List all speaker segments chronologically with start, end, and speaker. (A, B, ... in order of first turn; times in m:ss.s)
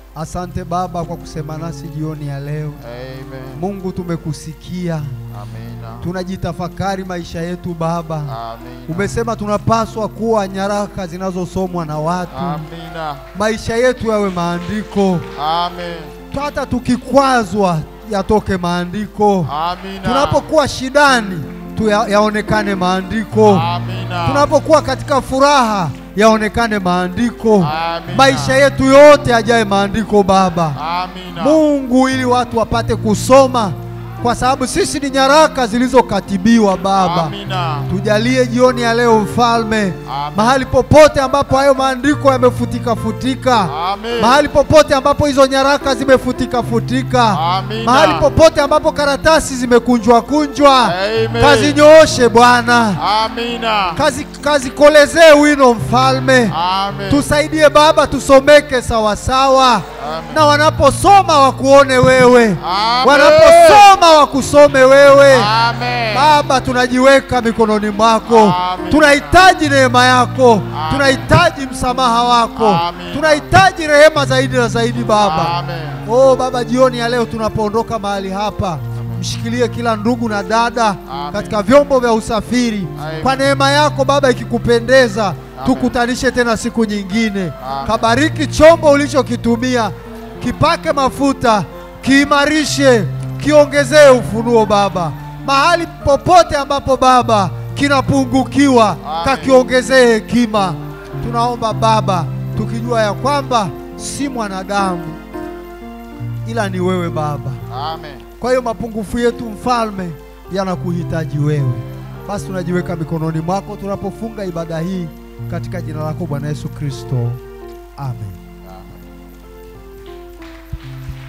0:00.2-0:02.8 A
0:02.8-0:03.6 B
0:03.5-0:05.2 A
0:05.3-0:06.1 B
0:06.0-0:08.4 A
0:08.3-0:09.1 B
0:08.9-0:12.7 A
0:12.3-0:13.3 B
0:13.3-0:15.3 A
0:15.4-0:16.2 B
0:16.3-0:19.5 A
0:19.5-0:20.5 B
0:20.0-0:23.7 A
0:23.4-0:24.5 B
0:24.2-0:30.8 A
0:27.6-0:28.6 B
0:30.8-0:31.6 B
0:31.4-0:37.3 A
0:37.0-0:37.9 B
0:37.9-0:53.0 A
0:40.1-0:40.6 B
0:43.7-0:44.4 B
0:47.3-0:48.3 B
0:50.8-0:51.8 B
0:53.0-0:54.0 B
0:54.0-0:56.6 A
0:56.5-0:57.3 B
0:57.1-1:05.5 A
1:00.0-1:00.4 B
1:02.6-1:03.9 B
1:05.3-1:06.4 B
1:06.1-1:45.2 A
1:08.3-1:09.4 B
1:10.7-1:11.2 B
1:12.6-1:13.5 B
1:15.1-1:16.0 B
1:19.0-1:19.2 B
1:21.1-1:21.6 B
1:23.0-1:23.4 B
1:25.6-1:26.0 B
1:27.6-1:28.0 B
1:39.0-1:39.6 B
1:46.4-1:47.6 A
1:47.7-1:48.3 B
1:48.4-1:57.4 A
1:58.0-1:58.4 A
1:58.7-1:58.9 B